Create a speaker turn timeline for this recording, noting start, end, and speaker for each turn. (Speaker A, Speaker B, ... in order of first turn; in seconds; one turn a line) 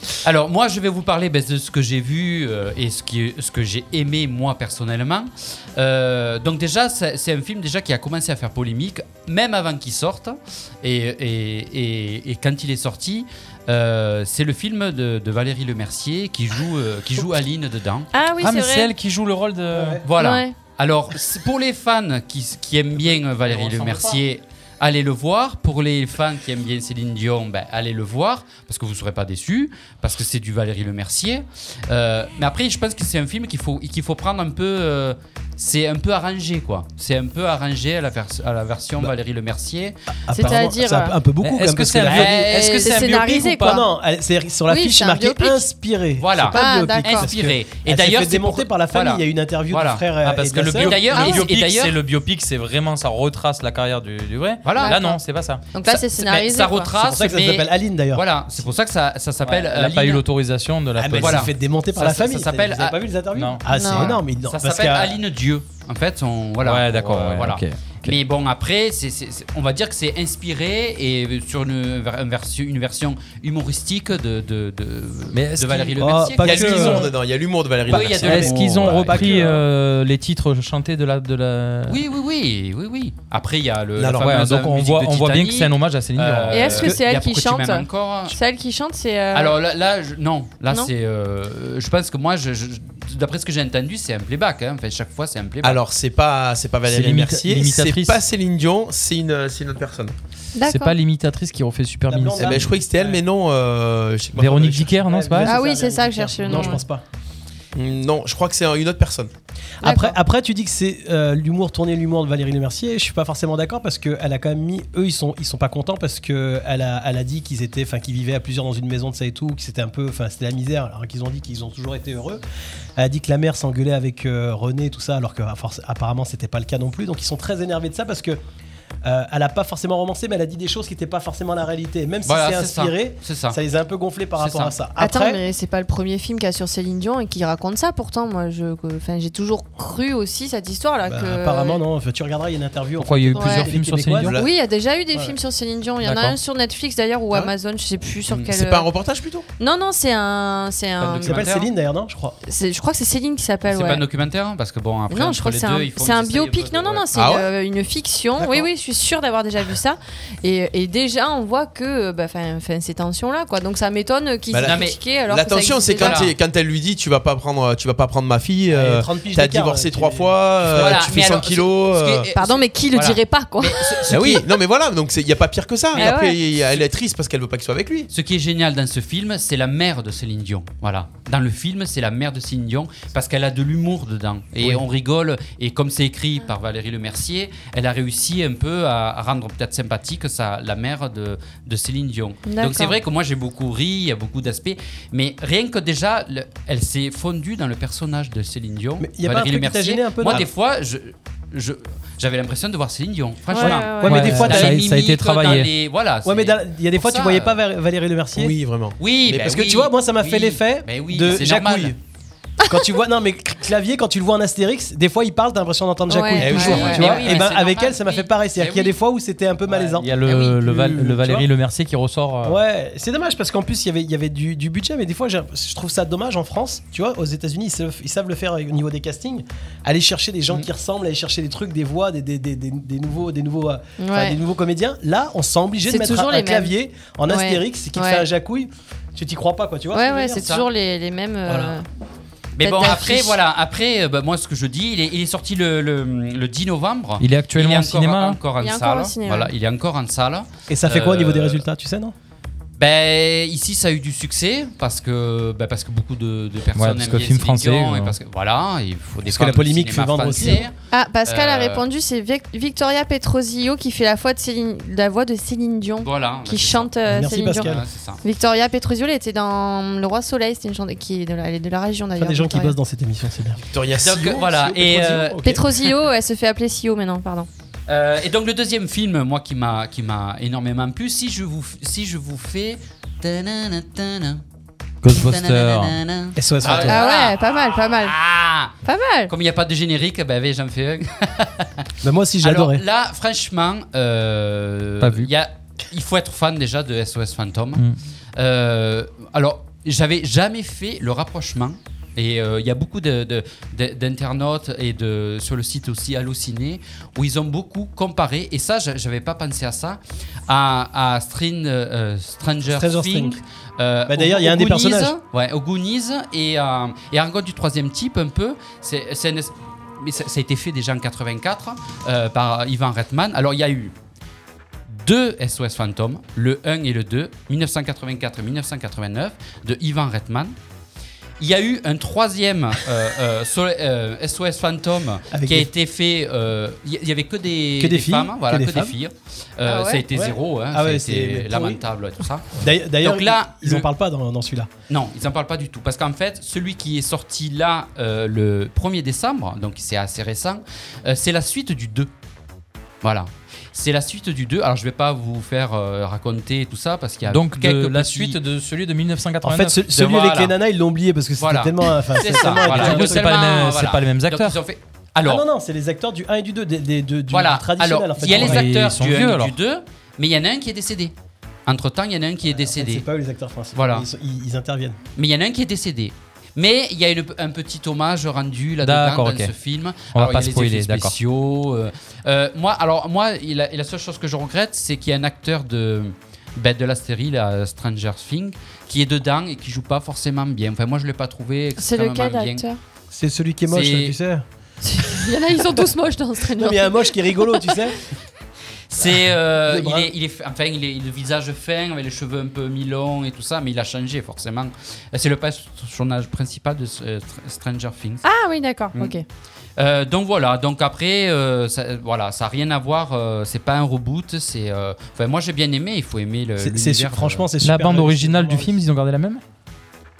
Speaker A: 0.2-18.1
Speaker B: 18.1-18.9
Speaker C: 18.4-20.0
Speaker D: 19.7-20.0
Speaker A: 20.0-40.0
Speaker B: 20.2-20.5
Speaker C: 23.0-24.2
Speaker D: 40.3-43.0
Speaker B: 40.3-41.1
Speaker C: 41.4-43.8
Speaker A: 42.0-42.6
Speaker B: 42.1-43.9
Speaker D: 43.6-51.0
Speaker B: 44.7-45.7
Speaker A: 46.2-50.0
Speaker B: 46.5-47.3
Speaker C: 50.2-55.6
Speaker A: 50.8-52.0
Speaker B: 51.1-51.4
Speaker A: 54.6-55.0
Speaker B: 54.8-55.2
Speaker B: 55.7-56.9
Speaker A: 55.8-60.2
Speaker D: 57.0-58.7
Speaker C: 59.4-61.5
Speaker D: 61.0-65.2
Speaker A: 61.1-63.0
Speaker C: 63.3-64.1
Speaker B: 63.7-64.2
Speaker A: 64.0-77.0
Speaker C: 66.6-68.2
Speaker C: 75.3-77.0
Speaker D: 76.0-77.1
Speaker E: 76.4-79.3
Speaker A: 77.9-79.2
Speaker D: 78.0-79.6
Speaker C: 78.1-82.0
Speaker A: 81.9-88.3
Speaker E: 84.0-84.3
Speaker C: 84.1-86.9
Speaker B: 86.5-89.5
Speaker A: 89.3-95.8
Speaker E: 95.6-100.1
Speaker C: 96.9-98.2
Speaker B: 100.5-100.9
Speaker C: 100.6-102.7
Speaker D: 102.1-103.2
Speaker E: 102.4-105.0
Speaker C: 104.3-105.6
Speaker D: 105.0-107.0
Speaker B: 105.4-106.8
Speaker E: 107.7-109.3
Speaker D: 109.8-122.4
Speaker B: 109.8-110.2
Speaker D: 123.0-128.4
Speaker D: 129.0-135.4
Speaker A: 132.2-133.6
Speaker A: 134.4-134.7
Speaker B: 135.0-141.8
Speaker D: 141.0-144.3
Speaker C: 143.0-144.3
Speaker B: 143.3-143.7
Speaker E: 144.2-144.5
Speaker B: 144.3-148.9
Speaker C: 146.0-146.4
Speaker E: 148.3-149.4
Speaker B: 149.6-151.4
Speaker A: 151.0-151.7
Speaker D: 151.2-152.3
Speaker B: 152.4-154.0
Speaker A: 153.7-157.1
Speaker B: 155.1-166.2
Speaker E: 157.1-157.5
Speaker E: 164.5-172.3
Speaker A: 164.6-165.0
Speaker A: 166.0-166.3
Speaker D: 168.7-171.0
Speaker A: 170.7-174.4
Speaker B: 172.3-174.4
Speaker E: 174.1-178.1
Speaker A: 175.9-176.9
Speaker B: 175.9-176.4
Speaker A: 178.1-207.6
Speaker B: 192.4-192.9
Speaker D: 199.0-200.5
Speaker B: 203.5-204.2
Speaker D: 203.6-204.8
Speaker C: 204.1-205.7
Speaker D: 206.2-208.6
Speaker E: 208.3-209.6
Speaker A: 209.0-211.9
Speaker D: 209.3-212.0
Speaker D: 212.7-221.5
Speaker B: 216.1-217.1
Speaker E: 216.4-217.0
Speaker A: 216.5-218.9
Speaker C: 219.7-222.6
Speaker D: 222.4-240.5
Speaker B: 234.0-234.4
Speaker B: 235.8-236.7
Speaker B: 237.3-238.3
Speaker B: 239.9-241.8
Speaker A: 240.3-240.7
Speaker D: 241.5-241.8
Speaker A: 242.6-251.6
Speaker B: 242.6-243.4
Speaker C: 247.2-248.4
Speaker B: 248.6-249.5
Speaker D: 250.7-252.1
Speaker A: 252.8-260.7
Speaker C: 256.7-258.1
Speaker D: 259.2-260.7
Speaker B: 260.9-267.7
Speaker A: 261.3-261.8
Speaker A: 266.0-266.9
Speaker D: 267.1-267.8
Speaker A: 267.6-268.2
Speaker B: 268.2-272.8
Speaker D: 272.2-273.6
Speaker E: 273.7-275.6
Speaker A: 274.0-275.4
Speaker D: 274.7-275.4
Speaker B: 275.4-277.5
Speaker A: 277.9-284.4
Speaker C: 285.0-286.0
Speaker A: 285.0-288.7
Speaker D: 286.4-287.0
Speaker B: 286.7-288.1
Speaker B: 288.8-289.3
Speaker A: 289.3-291.9
Speaker D: 292.0-292.8
Speaker A: 292.4-297.8
Speaker C: 295.0-295.3
Speaker A: 298.4-323.9
Speaker D: 312.6-313.4
Speaker D: 314.1-315.1
Speaker A: 324.9-330.5
Speaker A: 331.4-342.5
Speaker D: 335.3-335.7
Speaker D: 337.8-338.9
Speaker B: 339.6-340.0
Speaker D: 340.1-341.8
Speaker D: 342.6-344.7
Speaker A: 343.0-343.6
Speaker A: 344.9-352.1
Speaker A: 353.0-358.4
Speaker C: 357.3-359.8
Speaker D: 359.4-363.3
Speaker A: 359.9-360.5
Speaker A: 361.4-365.4
Speaker C: 362.3-364.6
Speaker D: 365.2-368.7
Speaker A: 367.3-371.1
Speaker C: 368.2-369.5
Speaker A: 371.6-373.1
Speaker D: 372.4-374.9
Speaker A: 373.7-374.1
Speaker A: 375.1-392.6
Speaker C: 378.8-379.5
Speaker C: 380.1-381.1
Speaker B: 391.8-392.8
Speaker D: 393.1-394.4
Speaker A: 393.7-394.1
Speaker B: 394.8-397.7
Speaker D: 396.6-398.0
Speaker A: 398.9-408.2
Speaker D: 399.0-400.1
Speaker B: 408.2-409.2
Speaker A: 409.8-417.5
Speaker D: 416.6-418.8
Speaker C: 417.6-419.4